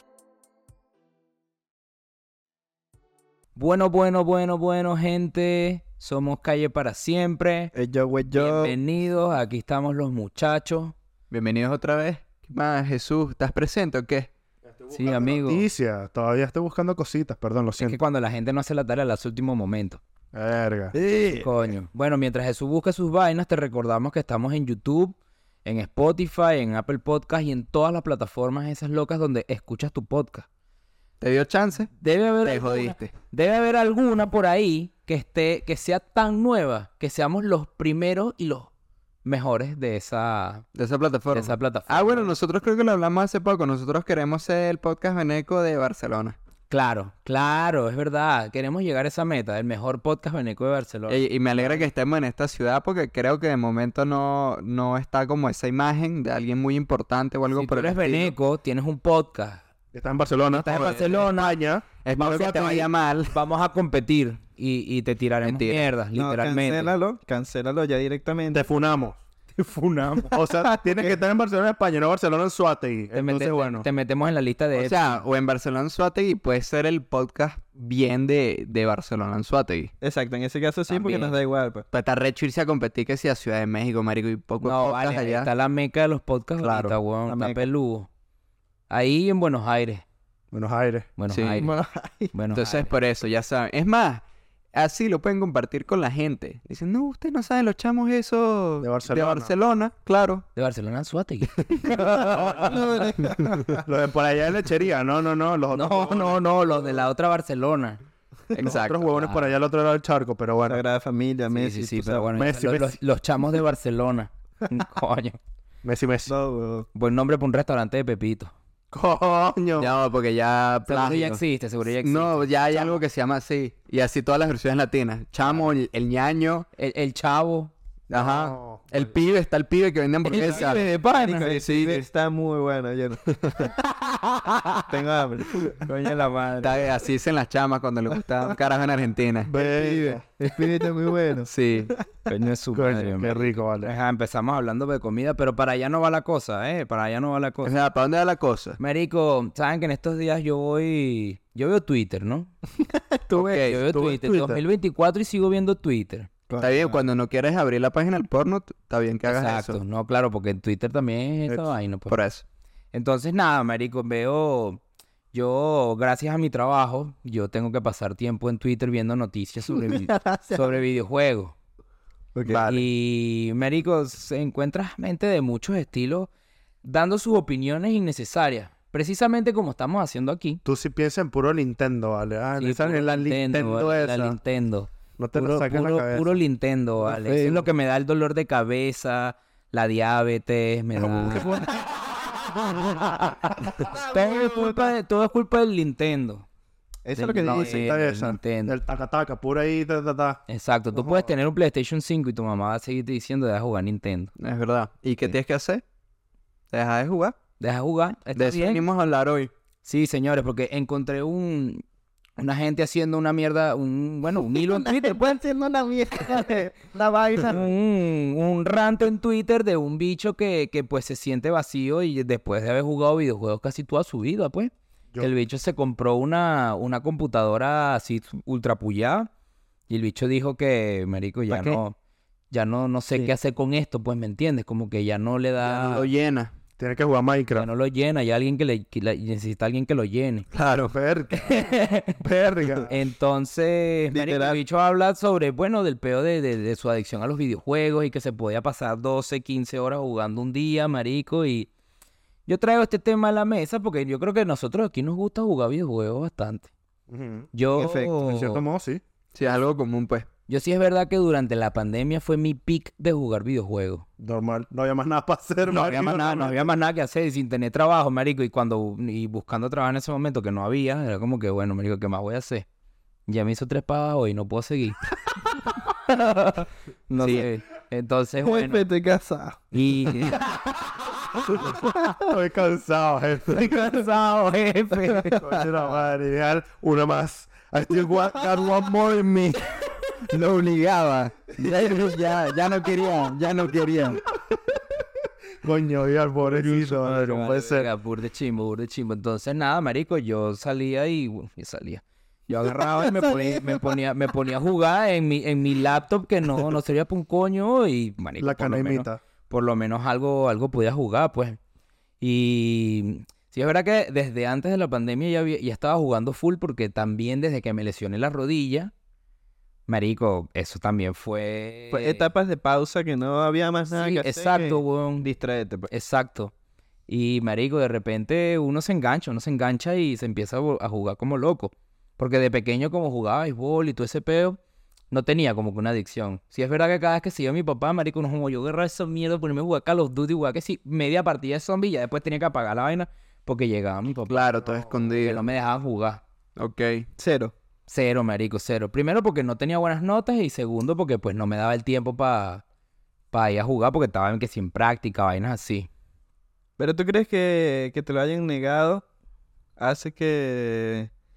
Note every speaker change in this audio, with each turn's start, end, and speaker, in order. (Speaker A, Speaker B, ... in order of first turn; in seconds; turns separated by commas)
Speaker A: 3.5-7.7, Speaker B: 7.7-8.8, Speaker A: 8.3-10.9, Speaker C: 11.3-14.3, Speaker D: 14.6-18.0, Speaker A: 14.9-15.7, Speaker A: 17.8-20.0, Speaker D: 20.3-21.5, Speaker A: 21.4-30.5, Speaker C: 31.2-31.9, Speaker A: 32.0-38.7, Speaker C: 32.4-33.1, Speaker A: 39.2-40.6, Speaker C: 40.7-46.4, Speaker A: 41.3-42.3, Speaker A: 46.7-51.9, Speaker C: 51.1-58.3, Speaker A: 57.5-59.6, Speaker D: 59.9-62.9, Speaker A: 60.5-61.5, Speaker C: 60.6-61.3, Speaker C: 62.0-63.4, Speaker A: 63.3-66.9, Speaker C: 65.4-65.8, Speaker B: 66.2-68.7, Speaker D: 68.5-73.8, Speaker A: 69.6-70.3, Speaker A: 73.1-75.2, Speaker C: 74.7-79.9, Speaker B: 80.0-81.8, Speaker A: 80.9-81.3, Speaker C: 81.9-85.5, Speaker A: 84.6-88.1, Speaker C: 86.6-87.0, Speaker B: 87.3-87.6, Speaker A: 88.9-90.0, Speaker D: 90.5-91.1, Speaker A: 91.2-91.7, Speaker C: 91.3-91.6, Speaker B: 91.5-92.3, Speaker A: 92.3-92.9, Speaker C: 92.5-100.4, Speaker D: 98.8-99.5, Speaker A: 100.5-102.8, Speaker D: 101.8-102.8, Speaker B: 102.3-103.6, Speaker D: 103.4-106.4, Speaker A: 105.7-108.0, Speaker D: 108.5-110.8, Speaker C: 108.5-109.1, Speaker A: 109.1-109.5, Speaker B: 110.7-112.3, Speaker A: 111.5-115.4, Speaker D: 112.3-113.0, Speaker D: 115.8-116.3, Speaker B: 116.3-116.9, Speaker A: 116.9-118.5, Speaker D: 118.9-119.9, Speaker C: 119.8-121.4, Speaker A: 120.9-123.0, Speaker C: 122.0-126.7, Speaker A: 126.8-127.7, Speaker C: 128.1-130.8, Speaker D: 128.1-129.1, Speaker A: 130.2-131.5, Speaker B: 130.4-133.7, Speaker C: 131.5-132.0, Speaker B: 134.9-135.8, Speaker A: 135.8-136.9, Speaker C: 136.6-139.5, Speaker D: 139.4-140.2, Speaker B: 139.5-142.0, Speaker C: 141.4-141.9, Speaker A: 142.3-147.7, Speaker D: 142.7-143.9, Speaker C: 147.6-148.8, Speaker A: 148.8-152.5, Speaker C: 153.3-154.0, Speaker A: 153.3-156.3, Speaker D: 153.9-154.6, Speaker B: 156.5-156.9, Speaker C: 156.6-159.8, Speaker A: 159.2-162.2, Speaker C: 162.1-162.4, Speaker A: 162.9-164.8, Speaker A: 165.3-171.5, Speaker B: 169.8-170.7, Speaker B: 172.3-172.7, Speaker D: 172.5-172.8, Speaker A: 172.5-176.3, Speaker A: 176.8-180.6, Speaker D: 180.6-184.4, Speaker A: 182.6-191.6, Speaker D: 185.2-186.4, Speaker B: 187.1-187.7, Speaker D: 191.0-191.7, Speaker A: 193.1-196.4, Speaker D: 193.8-194.1, Speaker B: 194.4-194.8, Speaker B: 197.0-197.9, Speaker A: 197.1-198.7, Speaker D: 197.4-200.4, Speaker A: 200.5-204.3, Speaker D: 200.9-201.3, Speaker C: 204.4-205.8, Speaker C: 206.7-207.3, Speaker A: 207.6-208.8, Speaker C: 208.3-209.5, Speaker A: 209.8-211.8, Speaker A: 212.4-215.2, Speaker B: 214.4-217.6, Speaker A: 217.4-229.3, Speaker A: 229.9-231.9, Speaker B: 231.5-231.8, Speaker A: 232.5-236.1, Speaker C: 235.6-236.5, Speaker D: 236.8-237.7, Speaker A: 237.6-240.5, Speaker C: 240.5-240.9, Speaker D: 240.9-241.6, Speaker A: 241.3-242.2, Speaker D: 242.2-242.9, Speaker A: 242.9-251.7, Speaker B: 244.1-244.6, Speaker A: 252.5-256.7, Speaker D: 257.1-257.5, Speaker A: 257.5-258.6, Speaker B: 257.7-258.1, Speaker D: 258.2-259.0, Speaker C: 259.3-260.3, Speaker A: 260.5-264.0, Speaker D: 264.2-266.6, Speaker A: 265.7-272.6, Speaker A: 273.3-275.0, Speaker A: 276.1-278.8, Speaker B: 278.4-279.6, Speaker A: 279.7-280.6, Speaker D: 281.5-283.7, Speaker A: 283.5-285.4, Speaker B: 285.3-285.6, Speaker D: 285.4-288.9, Speaker C: 288.4-294.2, Speaker D: 295.6-297.9, Speaker A: 296.4-311.6, Speaker D: 308.4-309.2, Speaker A: 312.2-318.9, Speaker A: 319.9-322.2, Speaker B: 321.9-325.9, Speaker A: 323.9-325.3, Speaker A: 325.9-326.5, Speaker A: 327.1-334.6, Speaker A: 335.1-344.5, Speaker C: 344.3-345.4, Speaker A: 345.1-346.2, Speaker C: 346.6-347.1, Speaker B: 347.2-347.5, Speaker A: 347.9-352.6, Speaker A: 353.3-355.9, Speaker B: 356.8-359.0, Speaker B: 359.8-361.1